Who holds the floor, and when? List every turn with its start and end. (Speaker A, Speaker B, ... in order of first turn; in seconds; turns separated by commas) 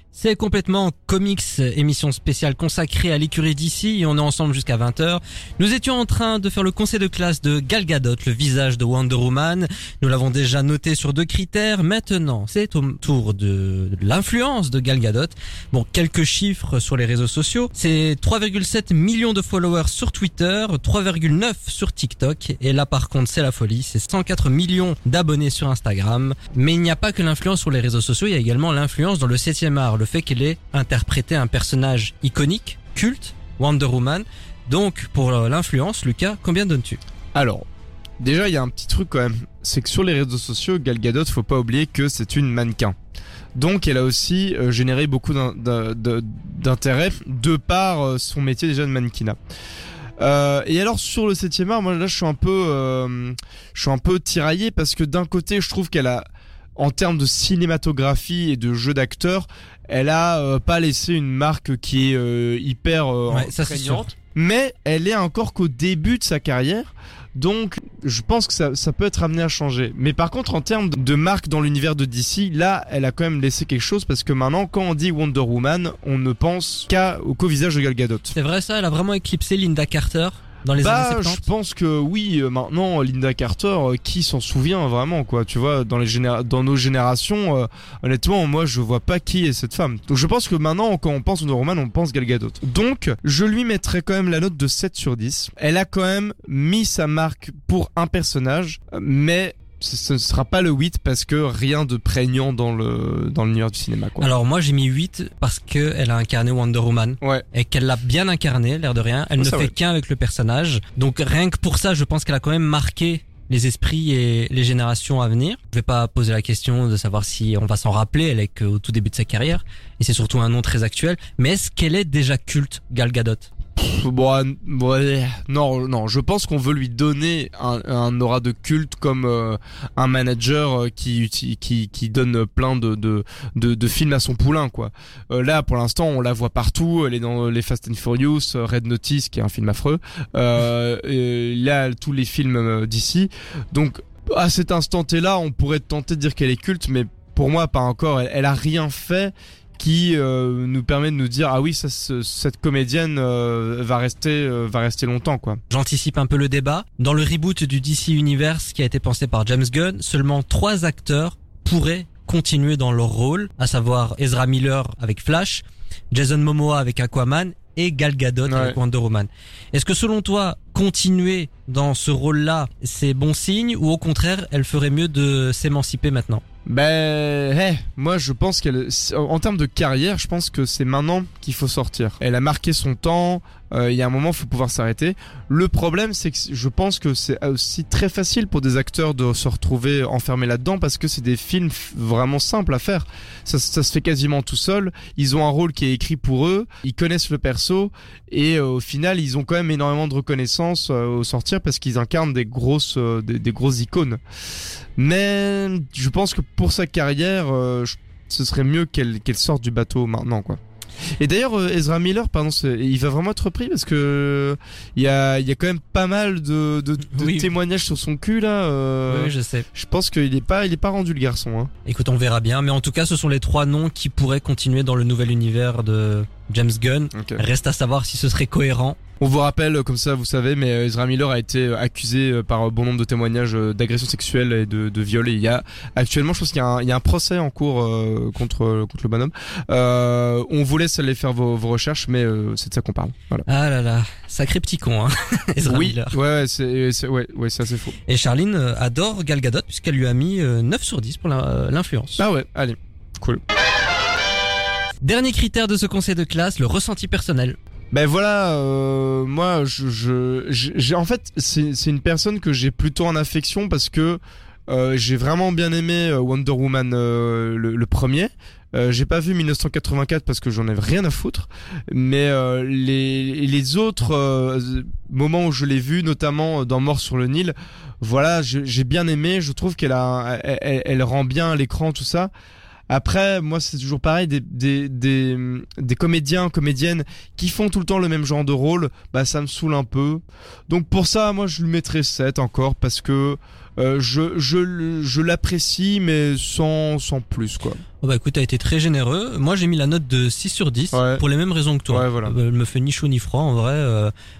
Speaker A: 0.1-37.0, Speaker B: 37.3-37.6, Speaker B: 38.2-42.9, Speaker B: 43.6-49.4, Speaker B: 50.2-56.2, Speaker B: 56.8-78.3, Speaker A: 63.3-64.1, Speaker A: 78.3-81.4, Speaker B: 80.7-104.3, Speaker A: 104.2-123.5, Speaker B: 109.4-109.7, Speaker B: 123.8-155.6, Speaker A: 155.7-176.4, Speaker B: 168.5-168.8, Speaker B: 176.7-204.2, Speaker B: 205.0-210.6, Speaker B: 211.2-221.7, Speaker A: 217.1-217.5, Speaker A: 219.1-219.7, Speaker A: 221.8-229.0, Speaker B: 227.1-227.4, Speaker B: 229.2-243.4, Speaker A: 243.4-246.2, Speaker B: 245.7-247.9, Speaker A: 248.1-252.2, Speaker B: 252.2-253.4, Speaker A: 255.0-257.6, Speaker B: 257.9-282.3, Speaker B: 282.9-297.8, Speaker A: 298.0-304.1, Speaker B: 300.9-301.2, Speaker B: 301.9-302.3